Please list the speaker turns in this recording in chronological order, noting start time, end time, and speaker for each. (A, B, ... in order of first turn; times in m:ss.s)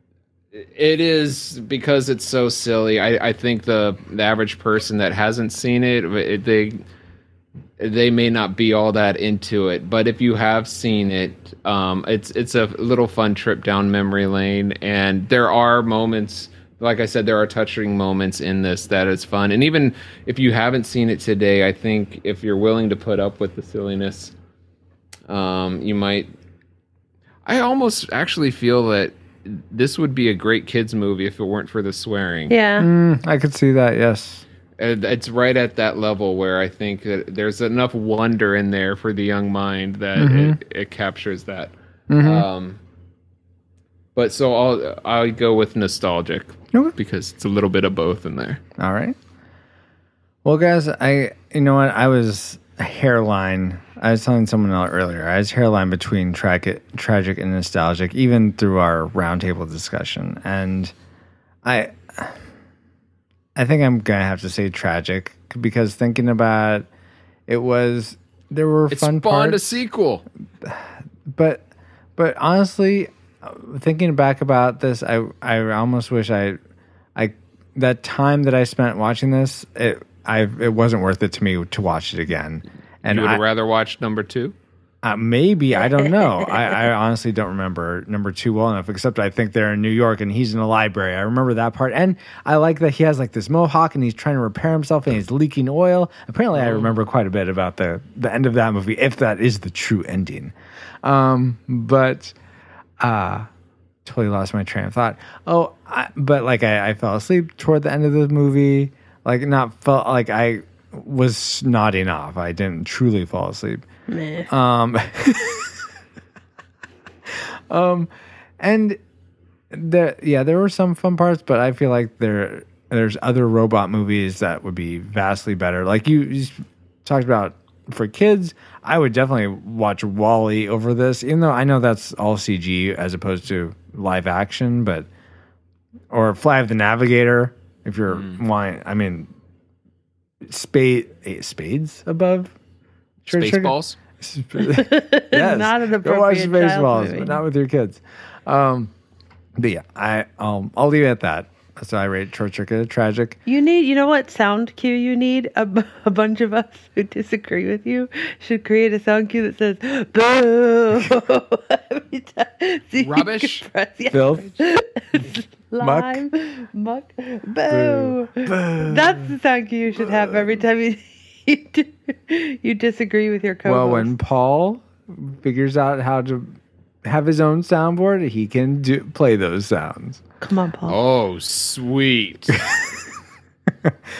0:00.5-0:06.8 A
0:07.8-0:24.3 A
0:25.3-0:26.3 A
0:27.4-0:32.5 A
0:32.5-0:32.9 B
0:32.8-0:34.4 C
0:34.8-0:42.8 A
0:40.2-0:40.6 C
0:42.1-0:42.5 C
0:44.1-0:48.6 A
0:48.8-0:49.2 C
0:50.4-1:00.9 C
1:01.6-1:02.4 C
1:03.6-1:06.9 C
1:07.5-1:09.8 C
1:08.9-1:10.2 A
1:10.6-1:11.6 C
1:12.2-1:16.6 C
1:17.2-1:23.4 C
1:23.0-1:24.5 A
1:25.0-1:42.3 C
1:36.5-1:37.0 A
1:43.0-1:43.5 C
1:44.0-1:53.8 C
1:54.1-1:54.5 B
1:54.5-1:55.7 C
1:57.3-1:58.1 C
1:58.6-1:59.0 C
1:59.7-2:15.1 C
2:16.1-2:19.3 C
2:18.1-2:18.4 A
2:20.4-2:22.5 C
2:23.2-2:28.9 C
2:23.3-2:24.0 A
2:24.6-2:27.4 B
2:29.6-2:33.4 C
2:33.4-2:54.1 B
2:42.9-2:43.6 A
2:44.1-2:44.6 C
2:45.8-2:46.2 C
2:47.7-2:49.3 C
2:50.0-2:50.6 C
2:53.6-3:00.2 C
3:00.4-3:01.0 B
3:00.9-3:02.7 A